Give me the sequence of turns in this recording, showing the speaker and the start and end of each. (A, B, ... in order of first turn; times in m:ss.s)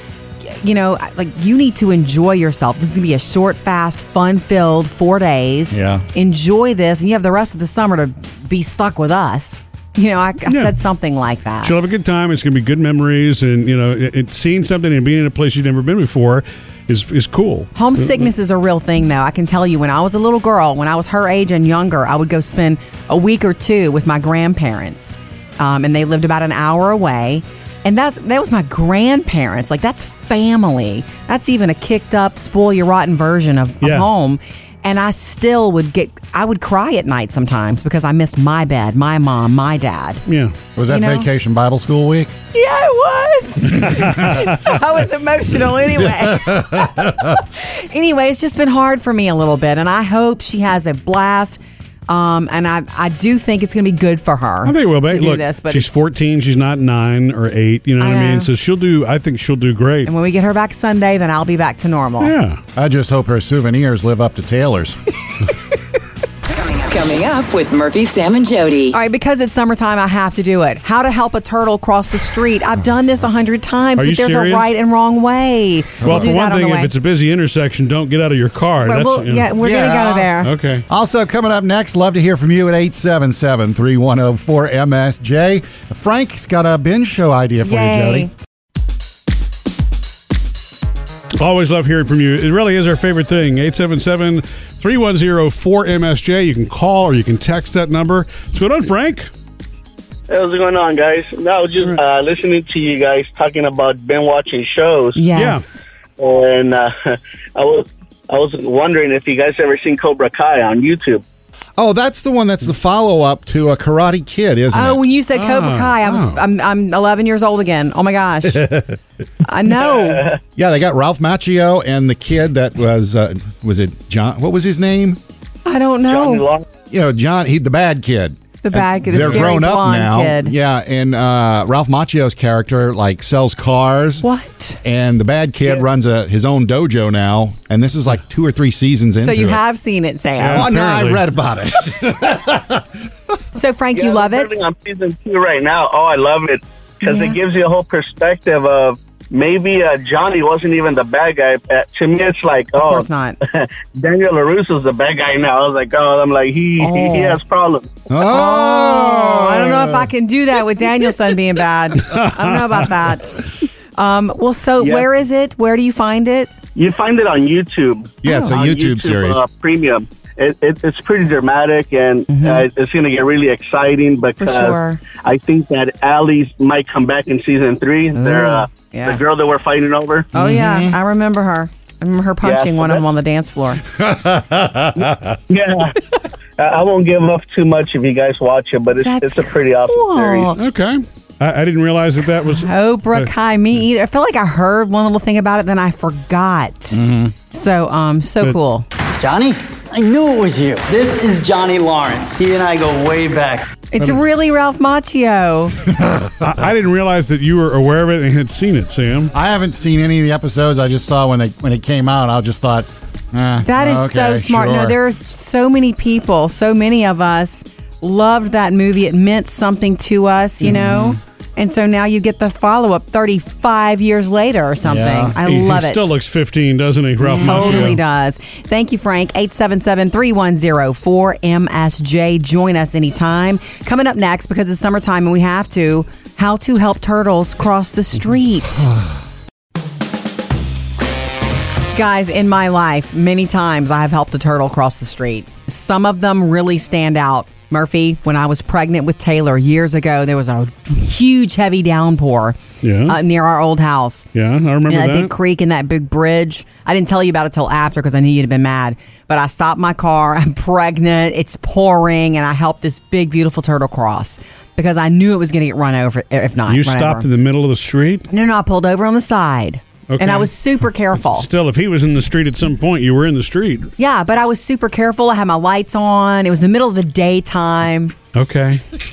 0:00.4-0:11.8 A
0:05.7-0:06.0 B
0:10.5-0:10.8 C
0:11.6-0:18.3 C
0:17.8-0:40.2 A
0:33.8-0:34.1 C
0:40.3-0:40.6 C
0:40.8-0:42.3 B
0:40.9-0:41.3 A
0:42.5-0:55.9 A
0:43.8-0:44.5 C
0:45.9-0:47.4 B
0:54.6-1:00.1 C
0:58.0-0:58.5 A
1:00.0-1:02.3 A
1:02.2-1:02.6 C
1:02.8-1:05.0 B
1:06.5-1:09.0 D
1:08.9-1:16.9 A
1:14.0-1:14.7 C
1:16.0-1:19.6 C
1:16.0-1:16.3 B
1:18.8-1:20.5 A
1:19.6-1:20.3 B
1:20.4-1:20.8 C
1:20.9-1:28.3 B
1:27.6-1:28.3 A
1:31.4-1:39.3 C
1:40.3-1:45.3 E
1:45.2-1:45.8 A
1:45.4-1:45.7 C
1:46.2-1:51.2 E
1:51.8-1:55.0 B
1:54.7-1:58.8 A
1:55.3-1:56.4 C
1:58.5-1:59.0 B
1:59.4-2:00.3 A
1:59.7-2:00.4 E
2:00.6-2:05.2 B
2:05.6-2:06.5 A
2:06.1-2:06.6 E
2:06.9-2:14.2 B
2:08.6-2:10.5 A
2:14.2-2:14.8 A
2:14.8-2:19.6 B
2:19.2-2:20.7 A
2:20.4-2:21.2 C
2:20.6-2:22.9 B
2:23.5-2:24.6 A
2:24.0-2:37.9 E
2:27.0-2:27.4 A
2:32.8-2:33.4 A
2:36.8-2:37.4 A
2:38.1-2:40.0 B
2:38.3-2:43.5 A
2:42.1-2:42.6 C
2:44.0-2:46.5 A
2:44.8-2:45.1 E
2:46.8-3:00.3 E
2:48.2-2:49.4 B
2:48.2-2:48.6 A
2:52.3-2:52.7 A
2:54.4-2:55.0 A
2:58.2-2:59.2 A
3:00.3-3:03.8 A
3:00.4-3:01.0 B
3:02.4-3:03.0 E
3:04.0-3:05.4 B
3:05.5-3:06.0 E
3:06.6-3:10.5 E
3:09.0-3:10.6 A
3:10.6-3:13.3 C
3:12.5-3:18.9 A
3:16.9-3:17.3 B
3:19.2-3:23.7 F
3:23.9-3:25.8 A
3:25.9-3:26.5 B
3:26.4-3:29.3 C
3:29.3-3:35.0 B
3:33.6-3:46.1 A
3:40.6-3:41.2 B
3:44.8-3:45.4 B
3:45.4-3:48.0 C
3:47.2-3:58.9 A
3:47.3-3:47.9 B
4:01.9-4:14.3 A
4:12.8-4:13.2 C
4:14.4-4:15.3 C
4:14.9-4:27.3 A
4:26.7-4:28.2 C
4:28.3-4:31.5 A
4:30.1-4:30.5 C
4:31.2-4:33.9 C
4:34.0-4:38.2 A
4:38.4-4:38.8 C